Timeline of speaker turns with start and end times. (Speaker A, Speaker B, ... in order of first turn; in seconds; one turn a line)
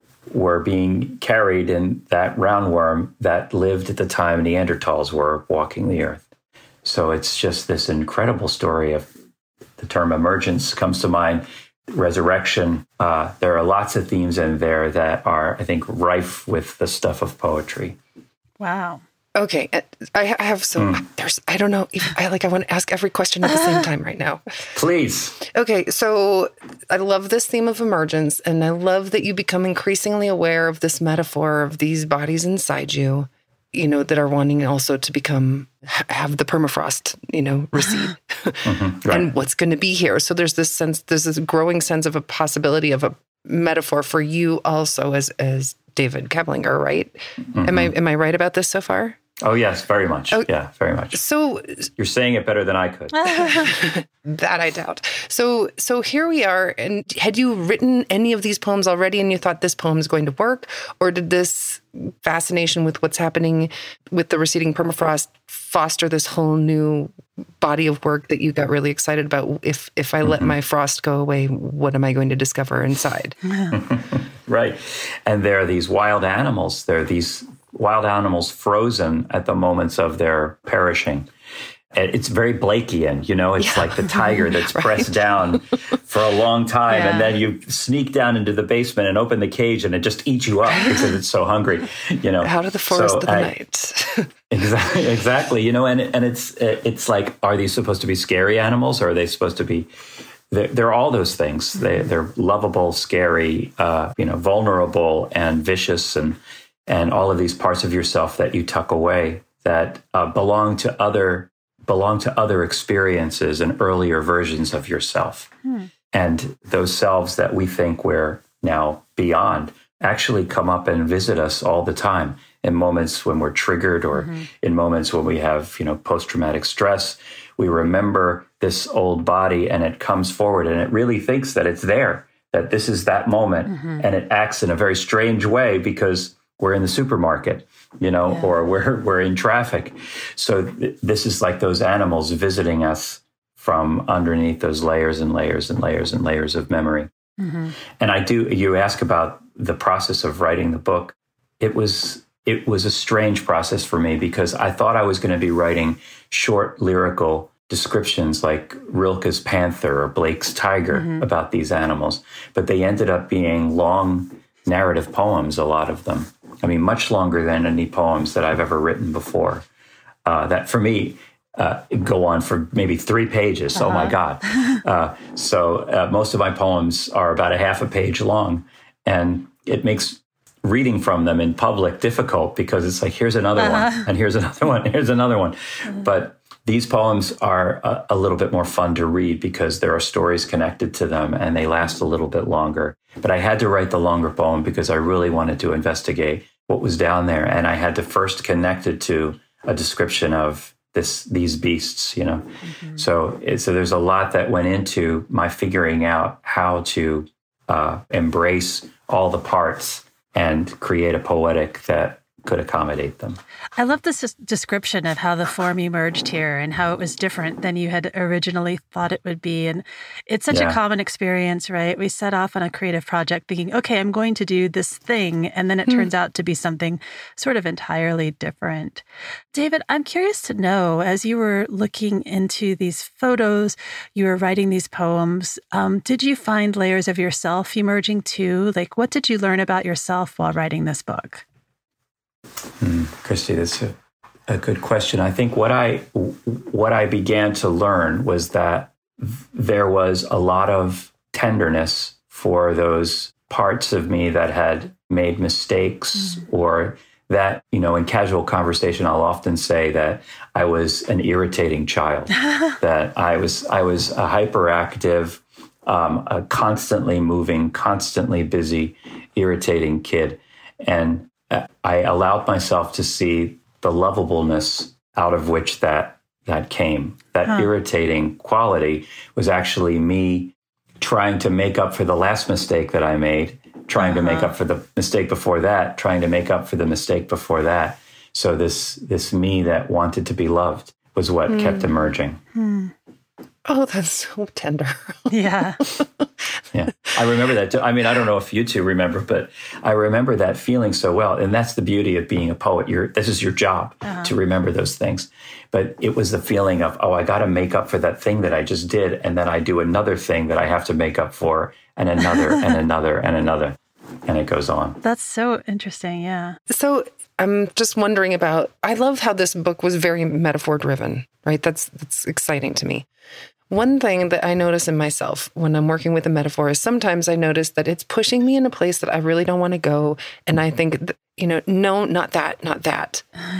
Speaker A: 0.3-6.2
Speaker A: 6.8-9.1
Speaker A: 9.8-18.0
Speaker B: 18.6-19.0
Speaker C: 19.3-24.4
Speaker A: 20.8-21.0
Speaker A: 24.7-25.4
Speaker C: 25.4-49.2
Speaker A: 38.6-39.3
Speaker A: 47.5-47.9
Speaker A: 49.4-51.2
Speaker C: 51.1-51.9
Speaker A: 52.0-53.7
Speaker B: 53.3-53.6
Speaker C: 53.4-73.4
Speaker A: 70.2-70.5
Speaker A: 73.7-81.3
Speaker A: 81.9-93.5
Speaker C: 83.6-85.1
Speaker B: 86.9-87.3
Speaker C: 90.7-91.0
Speaker C: 92.4-94.3
Speaker A: 94.5-99.9
Speaker A: 100.5-115.5
Speaker B: 115.6-115.9
Speaker A: 116.1-147.1
Speaker B: 124.1-124.5
Speaker B: 133.7-134.0
Speaker B: 147.4-147.7
Speaker A: 148.0-169.7
Speaker B: 160.9-161.2
Speaker A: 170.2-213.4
Speaker B: 173.8-174.2
Speaker B: 183.6-184.1
Speaker B: 202.8-203.0
Speaker B: 213.8-241.4
Speaker A: 220.5-220.8
Speaker A: 242.8-243.9
Speaker A: 244.5-292.4
Speaker B: 284.0-284.5
Speaker C: 291.5-291.9
Speaker B: 292.5-292.9
Speaker C: 293.6-296.2
Speaker B: 295.3-295.8
Speaker A: 296.7-315.0
Speaker B: 304.0-304.3
Speaker B: 315.0-316.6
Speaker C: 316.7-323.1
Speaker C: 323.7-333.2